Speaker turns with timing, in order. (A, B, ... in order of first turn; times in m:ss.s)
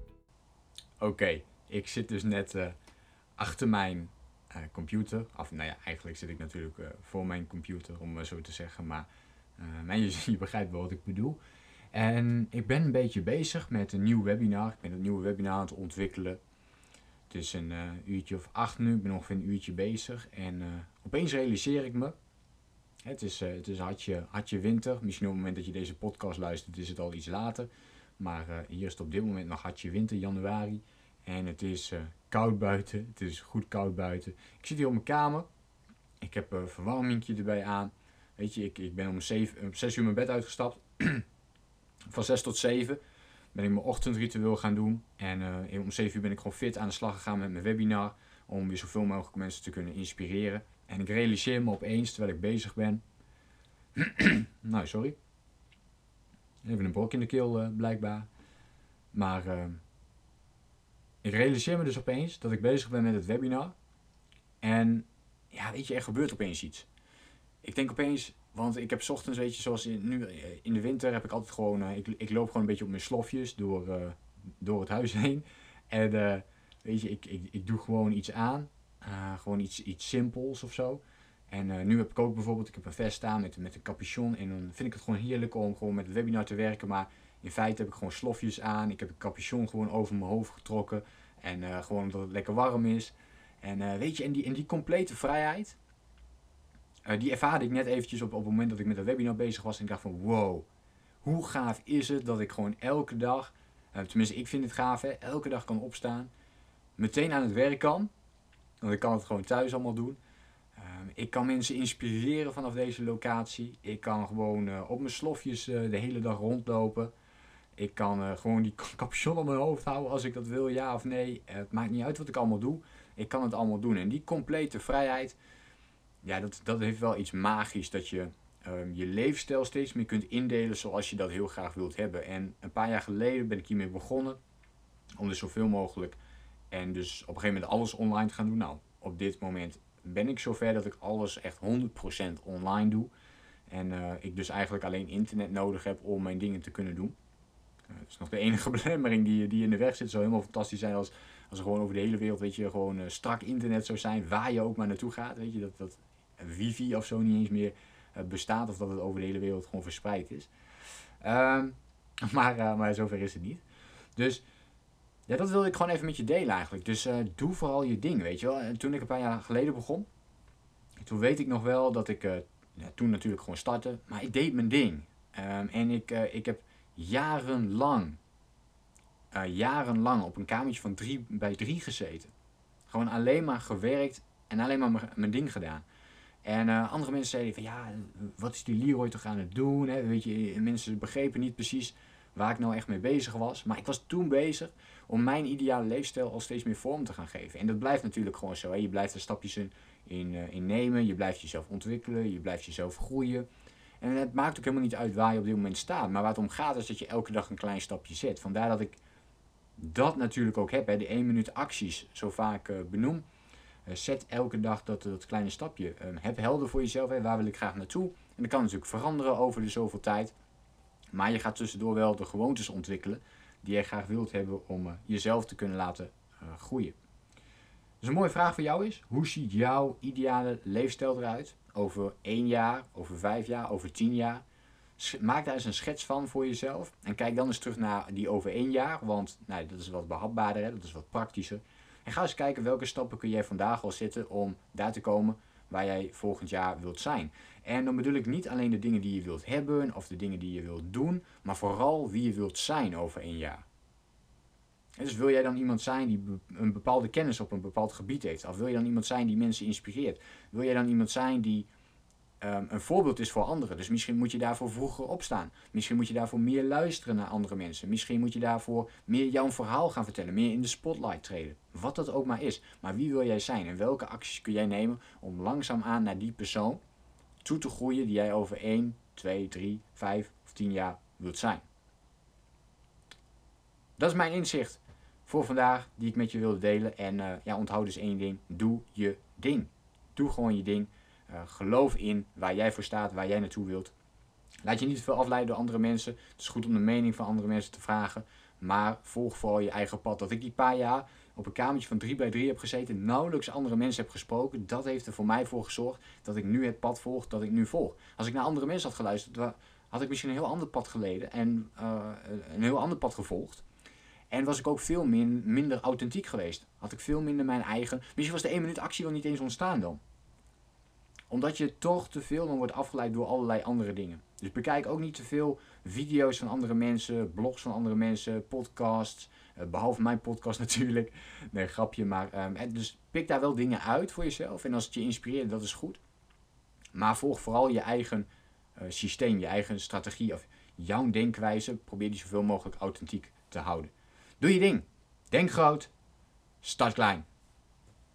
0:01.0-0:02.8 A
0:03.4-0:09.1 A
0:09.6-0:11.4 A
0:11.9-0:16.4 A
0:17.3-0:22.2 A
0:23.0-0:35.5 A
0:36.2-0:41.3 A
0:42.1-0:43.0 A
0:43.5-0:53.0 A
0:54.0-0:55.2 A
0:56.6-0:58.3 A
0:59.1-0:59.8 A
1:01.2-1:03.7 A
1:04.6-1:06.9 A
1:07.6-1:35.8 A
1:37.1-1:40.7 A
1:41.2-1:46.3 A
1:47.0-1:48.1 A
1:48.8-1:50.2 A
1:50.8-1:57.1 A
1:57.8-2:05.4 A
2:06.2-2:14.4 A
2:15.2-2:16.2 A
2:16.7-2:23.1 A
2:23.7-2:27.2 A
2:27.9-2:40.5 A
2:41.2-2:43.6 A
2:44.2-2:44.4 A
2:45.3-2:50.1 A
2:51.0-2:58.2 A
2:59.3-3:02.3 A
3:02.9-3:05.8 A
3:06.4-3:23.5 A
3:24.0-3:29.0 A
3:29.8-3:33.2 A
3:33.9-3:40.3 A
3:41.1-3:47.0 A
3:48.0-3:54.4 A
3:55.0-4:13.6 A
4:15.0-4:21.7 A
4:22.4-4:36.8 A
4:37.4-4:41.6 A
4:44.0-4:53.9 A
4:54.6-5:13.6 A
5:14.3-5:20.0 A
5:21.3-5:36.0 A
5:36.9-5:45.9 A
5:46.6-5:47.3 A